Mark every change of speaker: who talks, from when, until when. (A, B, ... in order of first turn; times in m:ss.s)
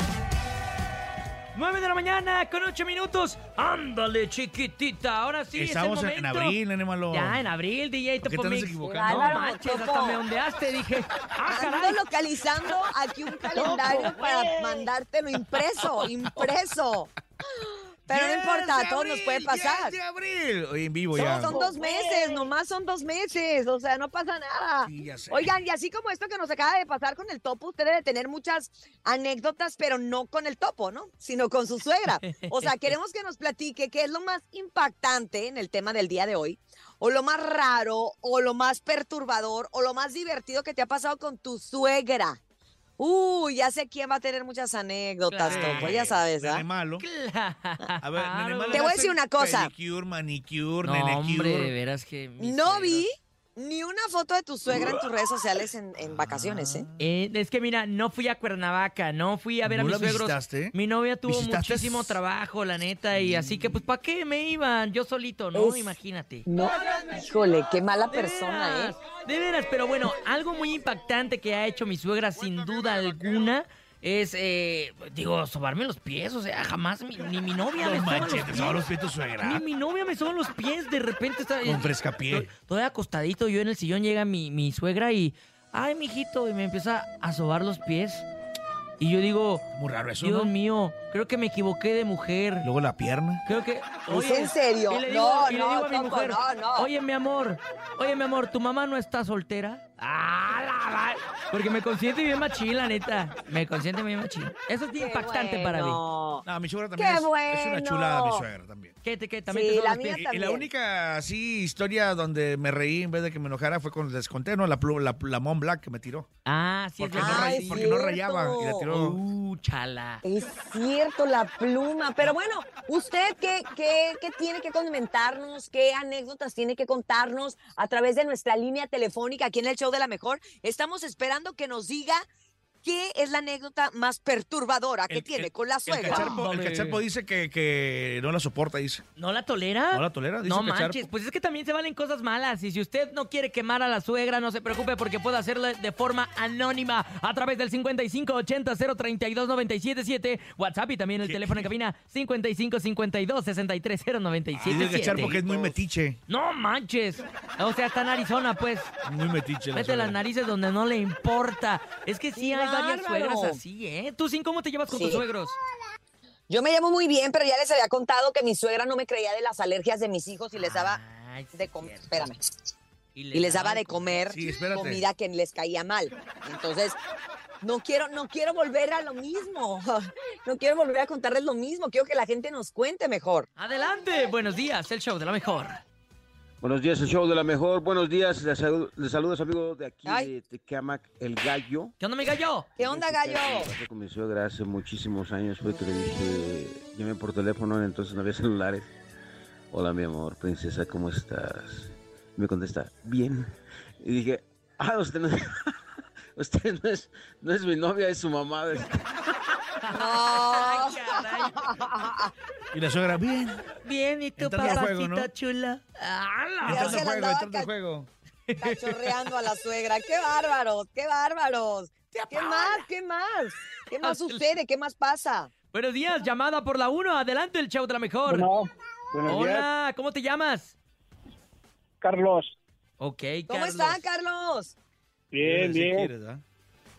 0:01.5-0:06.6 A
0:05.5-0:07.4 B
0:07.1-0:12.0 A
0:08.3-0:09.3 B
0:08.8-0:10.2 C
0:11.5-0:20.0 C
0:13.6-0:14.2 A
0:13.7-0:14.1 B
0:18.1-0:21.6 B
0:21.2-0:42.4 C
0:24.8-0:25.5 B
0:32.2-0:32.7 A
0:43.0-0:46.6 C
0:45.3-0:46.0 A
0:45.5-0:47.1 B
0:47.0-0:49.0 A
0:48.0-0:51.7 B
0:48.7-0:49.7 C
0:50.8-0:53.0 A
0:52.4-0:56.9 C
0:54.7-0:55.0 B
0:56.0-0:57.1 B
0:57.0-1:06.5 A
0:59.6-1:02.2 B
1:03.1-1:03.8 B
1:05.6-1:06.0 C
1:06.5-1:09.0 C
1:08.1-1:18.9 A
1:12.4-1:13.6 B
1:17.8-1:19.6 B
1:19.4-1:28.3 A
1:21.6-1:22.5 B
1:29.0-1:29.7 A
1:29.7-1:30.5 B
1:30.2-1:32.7 A
1:32.6-1:33.4 B
1:33.4-1:46.0 A
1:34.1-1:36.9 C
1:45.0-1:46.4 C
1:46.5-1:49.0 B
1:47.0-1:48.5 C
1:49.0-1:50.2 A
1:49.5-1:50.7 C
1:50.1-1:56.3 B
1:56.4-1:57.9 A
1:57.0-1:59.2 B
1:57.2-1:58.8 C
1:58.9-2:00.2 A
2:00.2-2:12.2 C
2:12.8-2:16.3 C
2:15.1-2:19.0 B
2:16.1-2:17.0 A
2:19.2-2:35.4 A
2:19.9-2:21.1 B
2:31.2-2:31.7 B
2:34.6-2:36.2 B
2:35.3-2:35.8 D
2:36.3-2:38.9 A
2:39.0-2:40.2 B
2:39.7-2:45.6 A
2:42.4-2:43.6 C
2:44.9-2:45.2 C
2:46.5-2:51.0 C
2:50.6-2:52.3 A
2:51.6-2:52.4 C
2:53.2-2:54.2 A
2:53.3-2:57.0 C
2:54.3-2:55.0 B
2:57.6-3:03.5 C
3:03.6-3:05.8 A
3:06.6-3:11.9 E
3:10.0-3:10.3 C
3:12.0-3:12.7 A
3:12.8-3:13.7 C
3:12.8-3:18.9 E
3:19.7-3:25.7 E
3:26.4-3:29.3 E
3:29.8-3:31.6 A
3:29.9-3:32.3 C
3:32.7-3:33.6 B
3:33.8-3:37.1 A
3:34.4-3:35.3 B
3:36.6-3:38.1 B
3:36.7-3:37.7 C
3:38.5-3:39.0 A
3:38.6-3:45.5 C
3:42.1-3:42.9 A
3:43.9-3:44.6 A
3:45.7-3:48.5 A
3:48.3-3:49.7 D
3:49.3-3:50.7 A
3:52.0-3:52.6 D
3:53.0-3:54.0 A
3:53.5-3:54.7 C
3:55.3-3:56.1 D
3:55.4-3:56.4 B